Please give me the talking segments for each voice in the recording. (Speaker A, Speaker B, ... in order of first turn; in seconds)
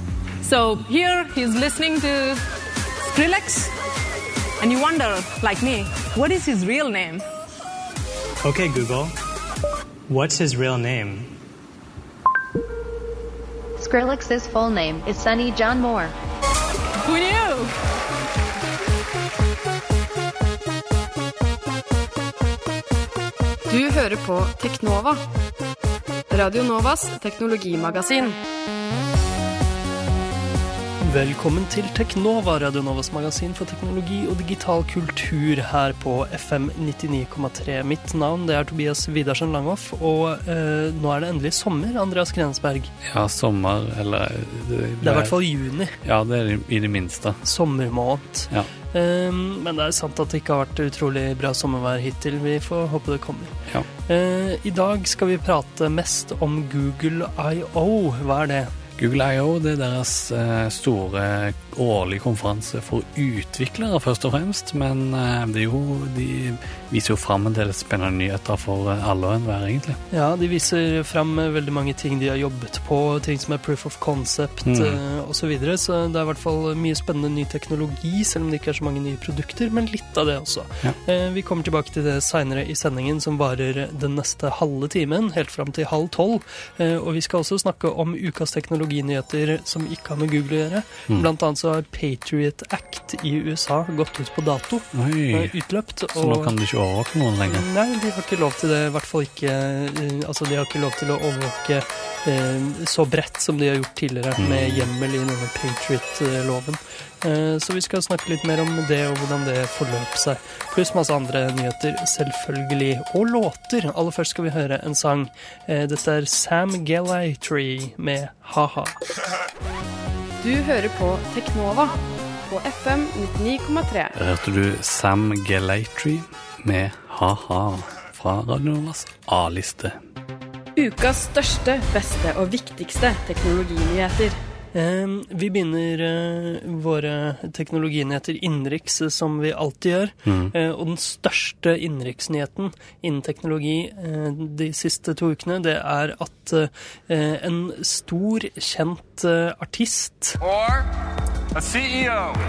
Speaker A: 0.4-2.4, 3.0-3.7, 4.6-7.3, 17.0-17.7
Speaker B: 8.4-9.1, 10.1-11.3
Speaker C: 13.8-16.1
Speaker D: 23.7-25.2, 26.3-28.4, 120.4-124.1, 130.8-134.4
Speaker E: 31.0-42.9, 45.0-46.0, 47.4-58.7, 70.1-96.5, 97.5-119.0, 134.7-150.4
Speaker F: 43.0-45.4, 46.0-47.4, 59.0-70.0, 74.6-75.0, 94.9-95.6, 96.1-97.7, 104.4-104.9, 124.1-130.0, 140.2-140.5